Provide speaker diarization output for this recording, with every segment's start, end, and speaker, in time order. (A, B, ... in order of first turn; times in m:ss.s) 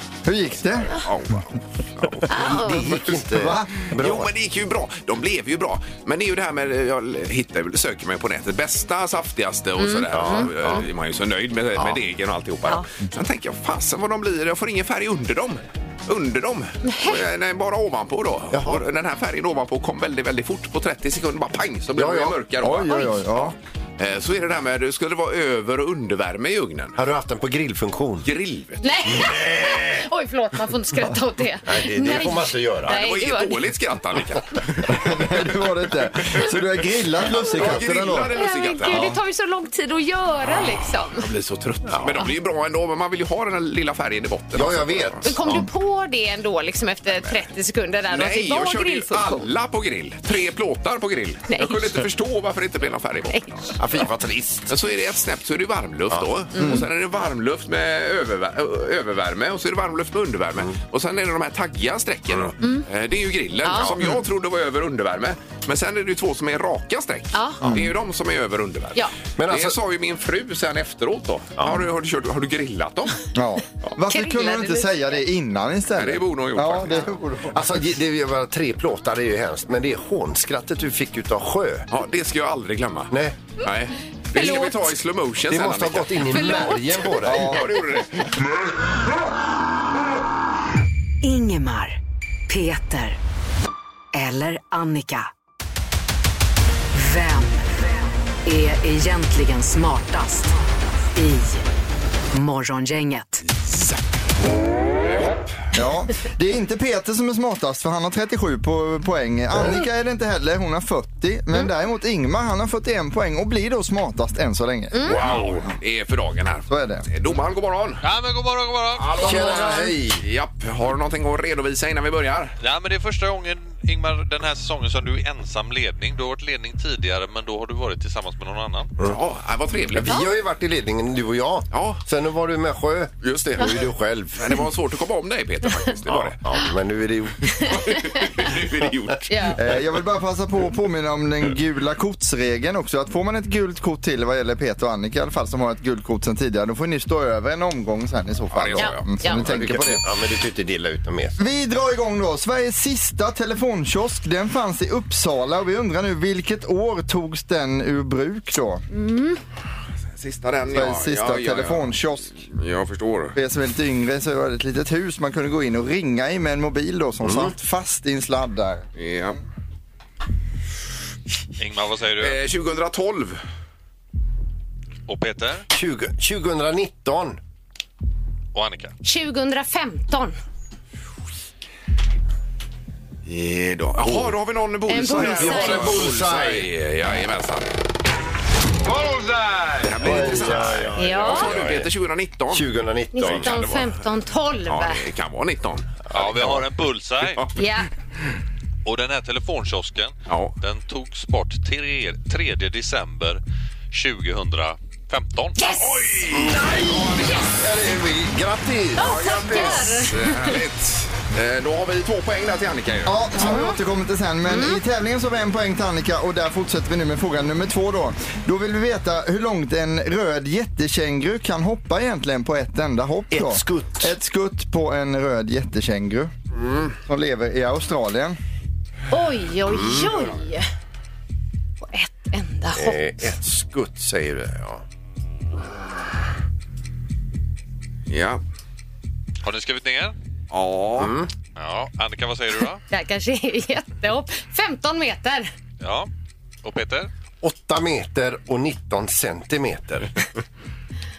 0:00.2-0:00.9 A
0:00.8-0:02.2 B
0:02.1-0:04.3 C
0:02.3-0:02.8 D
0:02.8-0:03.2 B
0:03.3-0:03.8 A
0:03.8-0:27.0 B
0:09.8-0:10.8 D
0:10.1-0:10.8 C
0:16.8-0:17.2 D
0:18.5-0:18.8 C
0:21.9-0:22.4 C
0:22.6-0:23.5 A
0:27.0-0:28.3 C
0:28.2-0:28.8 B
0:28.8-0:33.6 D
0:29.1-0:30.0 C
0:31.6-0:33.0 C
0:32.9-0:35.4 B
0:34.9-0:38.3 A
0:37.3-0:39.0 B
0:38.2-0:41.2 D
0:38.8-0:39.2 A
0:41.1-0:45.2 B
0:41.9-0:42.2 C
0:44.5-0:45.7 C
0:45.2-0:49.5 D
0:48.1-0:53.7 B
0:51.5-0:52.0 D
0:53.8-0:54.7 C
0:54.7-1:13.2 B
0:56.5-0:56.8 D
1:03.6-1:03.9 D
1:07.3-1:07.6 D
1:07.6-1:07.9 A
1:09.4-1:09.8 C
1:11.6-1:11.8 C
1:13.3-1:17.6 A
1:14.1-1:15.2 D
1:16.0-1:17.1 B
1:17.5-1:21.9 C
1:21.9-1:26.2 B
1:23.1-1:23.4 C
1:24.3-1:24.9 D
1:25.5-1:27.6 C
1:26.3-1:27.2 D
1:27.2-1:28.4 B
1:27.2-1:27.6 A
1:31.2-1:33.2 E
1:34.1-1:35.3 E
1:36.9-1:37.9 E
1:38.4-1:40.5 E
1:41.1-1:41.6 E
1:42.3-1:43.4 E
1:43.6-1:44.0 B
1:45.1-1:45.4 B
1:45.7-1:55.3 A
1:54.9-1:55.2 D
1:55.1-1:58.0 B
1:56.7-1:57.0 A
1:58.0-1:59.6 F
1:59.1-2:02.5 B
1:59.1-2:00.2 C
2:02.6-2:08.9 F
2:09.0-2:10.2 B
2:09.9-2:14.6 C
2:11.7-2:12.0 B
2:13.2-2:13.8 B
2:14.4-2:16.4 B
2:16.0-2:17.7 C
2:17.5-2:18.3 D
2:17.6-2:19.3 B
2:19.3-2:19.6 D
2:19.6-2:30.0 A
2:28.5-2:30.0 B
2:28.8-2:29.5 D
2:30.0-2:31.4 C
2:31.4-2:38.8 A
2:38.9-2:39.4 D
2:40.2-2:43.4 B
2:40.7-2:42.3 A
2:43.3-2:48.8 A
2:47.2-2:47.5 C
2:49.0-2:49.4 B
2:51.6-2:52.4 F
2:52.2-2:53.4 B
2:55.1-2:55.6 F
2:55.7-2:57.4 C
2:58.5-2:58.9 F
2:59.0-3:00.4 D
3:03.2-3:07.7 B
3:04.9-3:05.9 D
3:05.0-3:06.7 C
3:09.6-3:13.9 B
3:10.0-3:11.9 C
3:10.0-3:10.7 A
3:11.0-3:11.5 D
3:12.5-3:13.5 C
3:13.1-3:15.0 D
3:14.7-3:16.6 B
3:16.1-3:17.4 F
3:16.2-3:16.6 C
3:17.2-3:17.6 B
3:17.6-3:17.9 D
3:18.8-3:25.6 F
3:20.3-3:20.5 B
3:25.6-3:25.9 D
3:25.8-3:27.4 B
3:26.3-3:30.0 C
3:29.0-3:30.5 D
3:29.0-3:33.2 B
3:33.0-3:46.3 A
3:33.4-3:33.8 D
3:34.5-3:34.8 D
3:43.3-3:44.1 C
3:46.6-3:46.8 C
3:47.0-3:48.4 A
3:49.1-3:50.6 D
3:49.6-3:50.2 C
3:51.8-3:53.0 D
3:52.7-3:54.8 C
3:58.1-3:58.4 B
3:59.4-4:00.1 F
4:00.5-4:01.1 B
4:01.0-4:01.3 C
4:01.6-4:02.8 F
4:02.9-4:05.5 D
4:05.8-4:06.1 F
4:06.6-4:07.1 F
4:07.4-4:10.1 C